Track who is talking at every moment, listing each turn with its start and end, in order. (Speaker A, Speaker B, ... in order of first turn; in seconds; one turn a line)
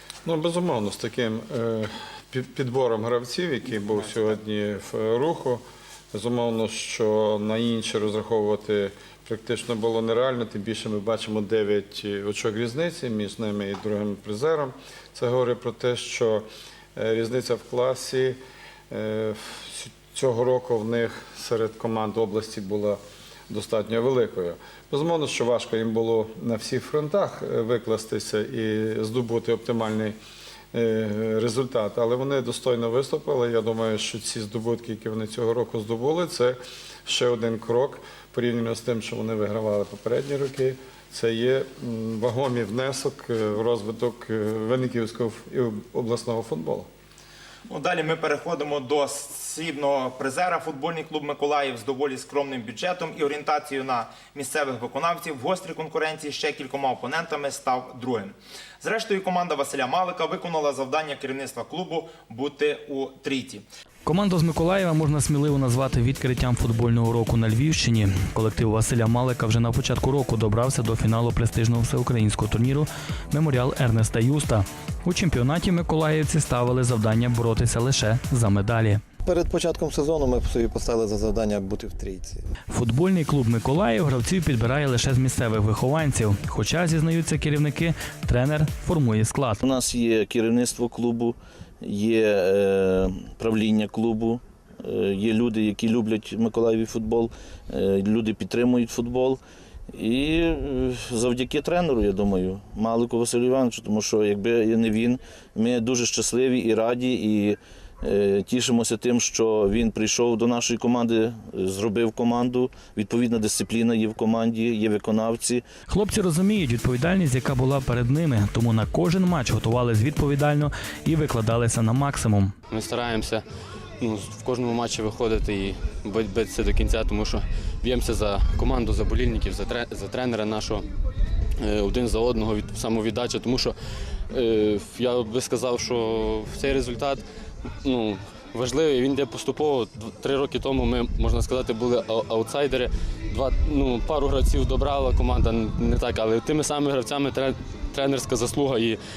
Speaker A: 0.2-30.2
Speaker A: 30.7-46.9
Speaker B: 47.7-63.6
Speaker C: 64.1-79.0
Speaker D: 79.3-82.5
Speaker C: 82.7-89.6
Speaker E: 89.6-99.4
Speaker E: 99.9-115.7
Speaker C: 115.9-122.5
Speaker F: 122.7-123.4
Speaker F: 124.0-130.9
Speaker F: 131.6-137.2
Speaker F: 137.8-149.0